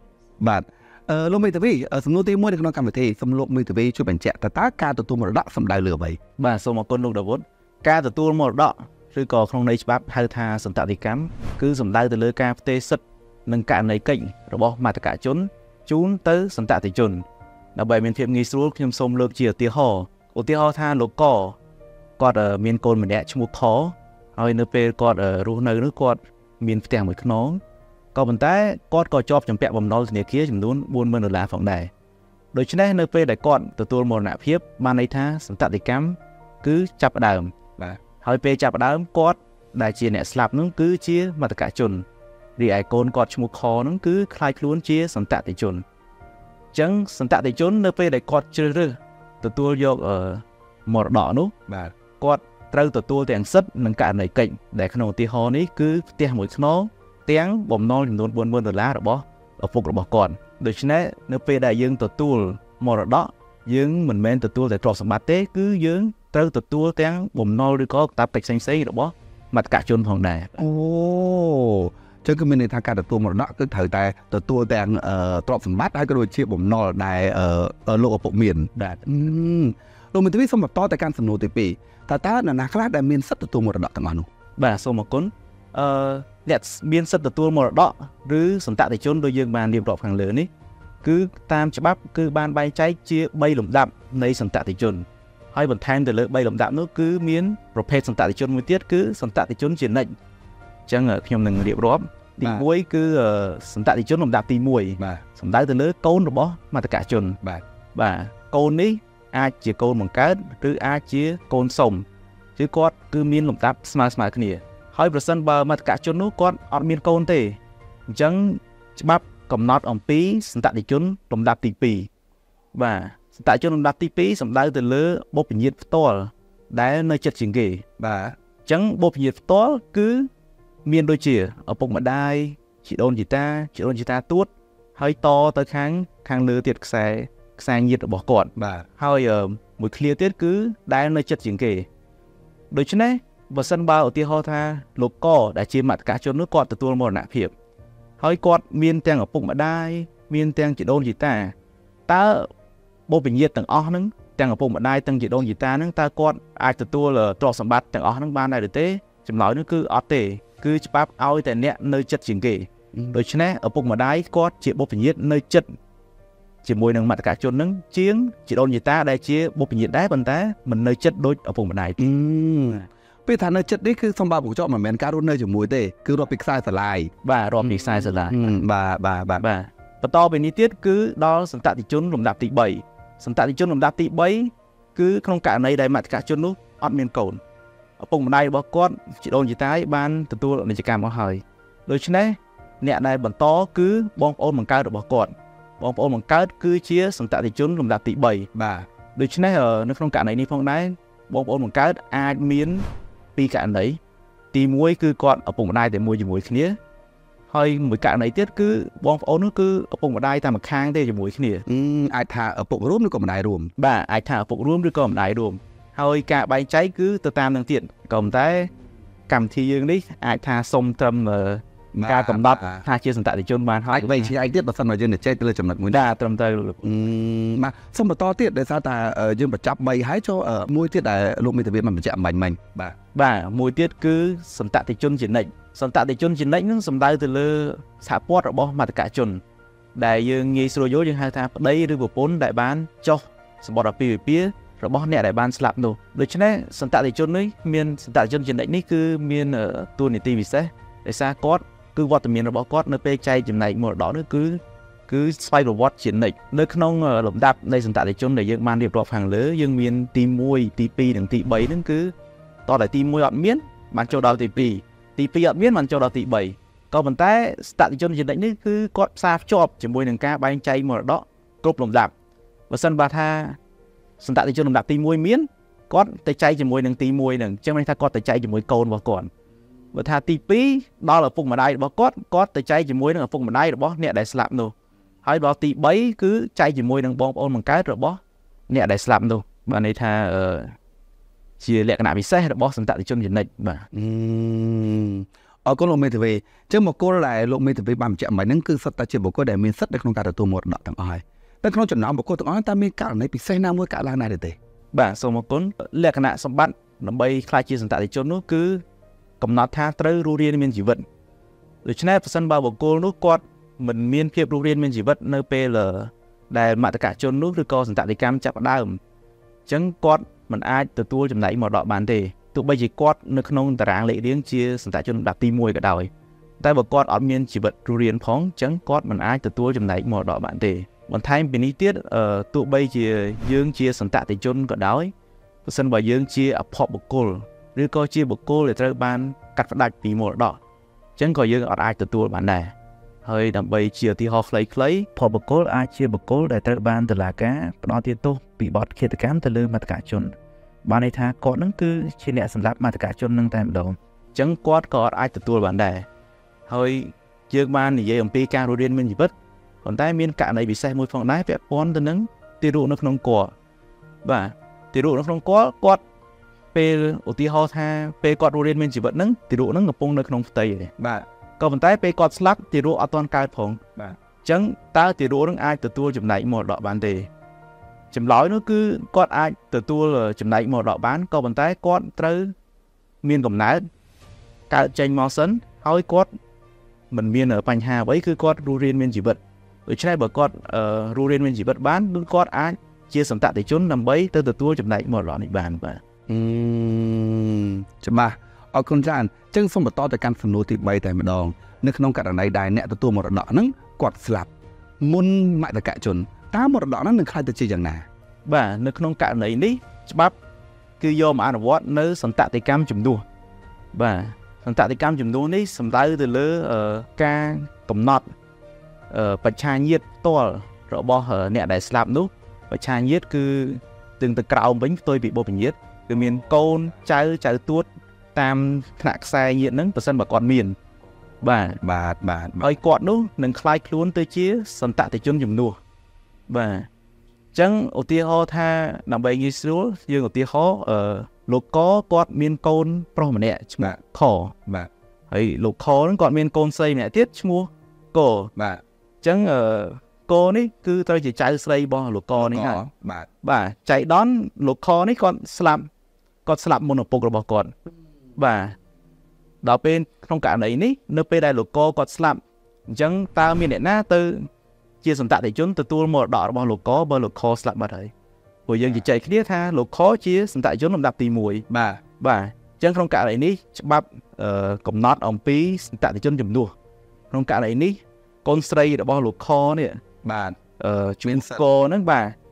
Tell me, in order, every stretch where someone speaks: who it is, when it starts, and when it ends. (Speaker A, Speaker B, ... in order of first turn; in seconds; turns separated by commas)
Speaker A: 0.4-6.2, Speaker B: 6.4-21.6, Speaker B: 22.2-27.6, Speaker B: 28.1-31.9, Speaker B: 32.5-37.5, Speaker B: 38.2-42.0, Speaker B: 42.6-45.8, Speaker B: 46.7-51.5, Speaker A: 51.7-51.9, Speaker B: 52.2-70.5, Speaker A: 70.6-84.3, Speaker B: 78.7-79.0, Speaker B: 84.6-90.5, Speaker B: 91.0-100.1, Speaker B: 100.9-107.4, Speaker B: 107.9-122.1, Speaker B: 122.7-127.8, Speaker A: 128.0-128.3, Speaker B: 128.7-130.3, Speaker B: 130.8-141.9, Speaker A: 138.6-138.9, Speaker B: 142.7-147.5, Speaker B: 148.2-151.5, Speaker B: 152.1-152.5, Speaker B: 153.1-165.7, Speaker B: 166.6-172.0, Speaker A: 172.0-177.1, Speaker B: 177.2-178.4, Speaker A: 177.6-179.4, Speaker B: 179.4-187.4, Speaker B: 188.0-198.5, Speaker A: 198.5-198.9, Speaker B: 199.1-204.0, Speaker B: 204.5-206.8, Speaker B: 207.5-211.6, Speaker A: 211.7-213.7, Speaker B: 213.8-218.7, Speaker B: 219.3-224.3, Speaker A: 221.9-222.8, Speaker A: 223.9-226.0, Speaker B: 225.9-226.9, Speaker A: 226.8-232.9, Speaker B: 233.1-239.4, Speaker B: 239.9-262.1, Speaker B: 262.6-272.1, Speaker B: 272.7-273.6, Speaker B: 274.2-279.3, Speaker B: 279.9-290.7, Speaker B: 291.6-293.9, Speaker A: 293.9-304.6, Speaker B: 304.9-308.8, Speaker B: 309.4-311.1, Speaker B: 311.8-319.0, Speaker B: 319.6-335.1, Speaker B: 335.6-340.6, Speaker B: 341.2-350.3, Speaker B: 350.8-356.1, Speaker B: 356.7-359.3, Speaker B: 359.8-363.5, Speaker B: 364.2-366.0, Speaker B: 366.7-370.9, Speaker A: 371.0-371.2, Speaker B: 371.6-373.8, Speaker B: 374.4-377.3, Speaker B: 378.1-382.5, Speaker B: 383.2-383.9, Speaker B: 384.7-386.3, Speaker B: 387.1-396.0, Speaker A: 396.3-404.5, Speaker A: 405.0-408.1, Speaker B: 408.4-410.4, Speaker B: 411.0-413.2, Speaker B: 413.9-418.3, Speaker B: 419.1-430.8, Speaker B: 431.4-431.8, Speaker A: 431.8-432.7, Speaker B: 432.6-435.8, Speaker B: 436.5-436.9, Speaker B: 437.5-444.6, Speaker B: 445.3-448.5, Speaker A: 448.6-448.8, Speaker B: 449.2-452.8, Speaker A: 452.4-453.3, Speaker B: 453.4-455.9, Speaker B: 456.4-457.7, Speaker B: 458.4-458.8, Speaker B: 459.6-464.5, Speaker B: 465.0-468.1, Speaker B: 468.7-471.6, Speaker A: 471.7-472.0, Speaker B: 472.2-476.7, Speaker B: 477.3-480.0, Speaker A: 480.2-480.6, Speaker B: 480.8-482.4, Speaker A: 481.3-481.6